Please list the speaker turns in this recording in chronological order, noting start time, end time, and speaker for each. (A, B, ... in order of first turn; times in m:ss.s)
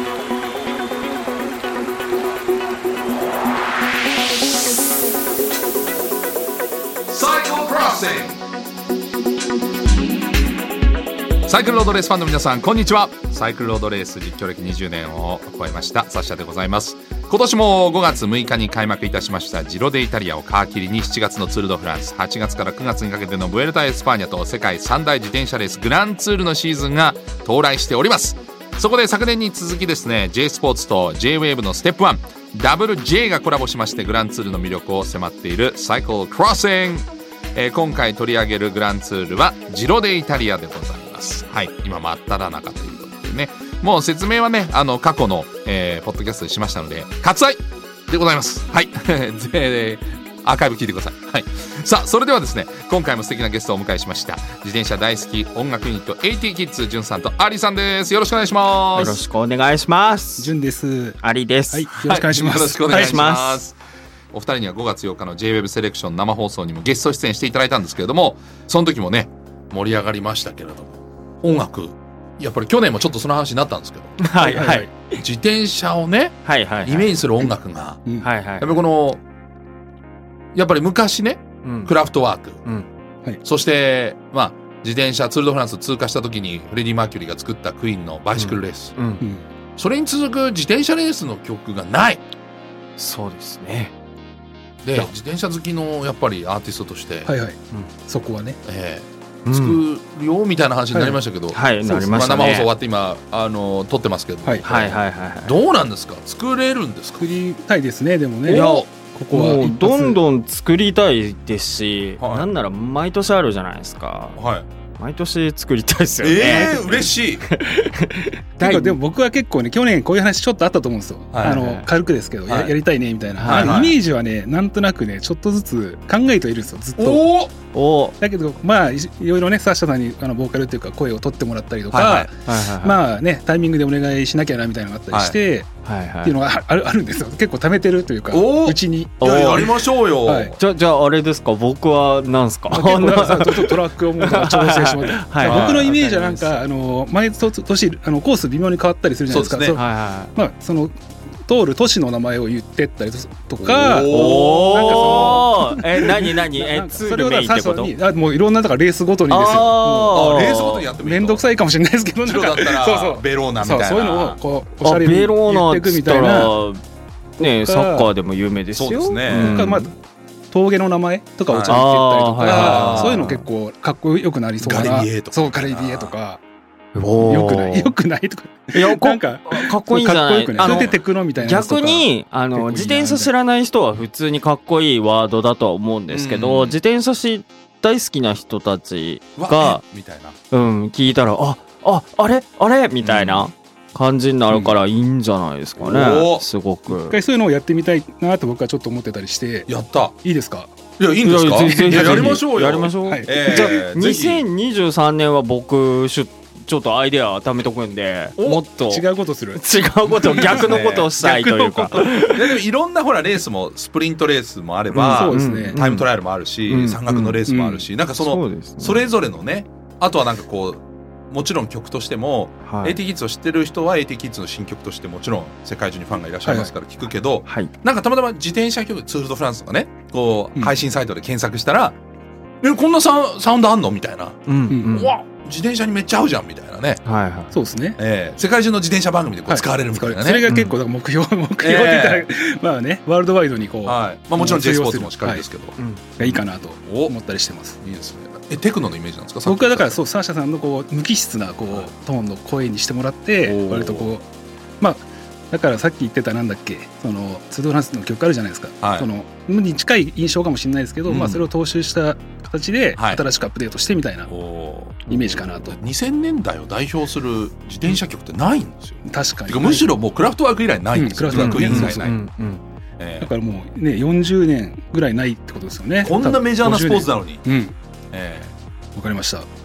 0:07.1-0:08.4 A
0:11.5-0:59.2 A
0:58.9-1:00.5 B
1:00.4-1:03.3 C
1:01.2-1:01.9 B
1:02.0-1:03.7 A
1:02.9-1:03.6 B
1:04.3-1:14.2 A
1:14.2-1:15.2 B
1:14.4-1:15.0 C
1:15.2-1:18.0 A
1:16.4-1:17.1 B
1:18.2-1:18.7 B
1:18.6-1:19.2 A
1:20.5-1:22.6 A
1:21.6-1:21.9 B
1:23.4-1:28.9 A
1:28.3-1:29.2 B
1:29.2-1:29.4 C
1:29.8-1:32.2 A
1:33.0-1:33.9 B
1:34.8-1:37.3 A
1:37.2-1:38.6 C
1:38.6-1:47.3 A
1:39.4-1:39.8 B
1:40.9-1:41.2 C
1:41.5-1:42.7 B
1:44.6-1:45.6 B
1:47.2-1:50.2 C
1:48.4-1:54.4 B
1:52.2-1:52.5 A
1:54.4-1:54.6 A
1:55.0-1:59.0 B
1:56.2-1:57.4 A
1:58.6-2:07.3 C
2:01.3-2:01.6 A
2:01.4-2:01.9 B
2:02.5-2:02.7 B
2:03.4-2:03.8 B
2:03.4-2:04.0 A
2:07.0-2:07.5 A
2:07.7-2:08.1 B
2:08.2-2:19.7 C
2:11.9-2:12.3 A
2:12.4-2:13.0 B
2:15.1-2:15.4 A
2:15.8-2:16.4 B
2:18.3-2:20.6 A
2:19.2-2:19.7 B
2:20.2-2:20.6 C
2:20.6-2:26.6 B
2:22.7-2:30.9 C
2:25.4-2:25.9 A
2:29.3-2:29.8 A
2:29.7-2:30.3 B
2:31.4-2:46.6 C
2:33.6-2:35.4 A
2:34.1-2:37.9 B
2:39.3-2:40.8 B
2:40.1-2:41.4 A
2:42.2-2:44.4 A
2:44.8-2:46.8 B
2:47.4-2:48.1 C
2:47.4-2:49.9 B
2:48.7-2:49.7 A
2:49.3-2:50.0 C
2:50.5-2:56.4 C
2:51.5-2:51.8 A
2:51.7-2:53.4 B
2:52.4-2:53.3 A
2:54.6-2:56.1 A
2:56.9-2:57.9 B
2:57.2-3:03.3 C
2:58.7-3:09.8 B
3:00.6-3:01.0 A
3:06.1-3:06.8 A
3:09.4-3:10.4 A
3:10.5-3:17.2 B
3:13.0-3:13.5 A
3:14.5-3:14.8 A
3:15.8-3:16.4 A
3:16.9-3:20.8 C
3:19.7-3:20.1 A
3:21.0-3:24.4 A
3:21.2-3:32.6 B
3:21.7-3:22.4 C
3:23.0-3:23.8 C
3:28.4-3:28.7 A
3:28.8-3:31.9 C
3:30.3-3:31.1 A
3:31.6-3:52.0 A
3:34.9-3:36.1 B
3:35.0-3:35.8 C
3:36.7-3:37.4 B
3:37.4-3:37.9 C
3:38.2-3:39.0 B
3:42.6-3:43.0 B
3:46.4-3:46.7 C
3:47.4-3:47.7 B
3:52.6-3:57.0 A
3:54.4-3:55.2 B
3:54.7-3:55.0 C
3:57.0-3:57.5 B
3:57.5-3:58.0 C
3:58.0-4:00.4 A
3:59.5-4:05.4 C
4:00.5-4:00.8 B
4:01.6-4:02.3 A
4:03.8-4:07.2 A
4:05.8-4:06.0 B
4:06.1-4:07.8 C
4:07.8-4:10.0 A
4:09.4-4:14.3 C
4:13.4-4:14.1 A
4:14.8-4:24.3 C
4:18.8-4:19.1 A
4:21.0-4:21.5 A
4:22.9-4:23.2 A
4:24.3-4:32.2 A
4:25.1-4:25.6 B
4:25.1-4:25.8 C
4:29.0-4:29.9 C
4:30.9-4:32.2 C
4:31.3-4:32.6 B
4:33.0-4:33.3 A
4:33.2-4:37.7 C
4:36.0-4:37.4 A
4:38.1-4:38.5 A
4:39.0-4:39.5 C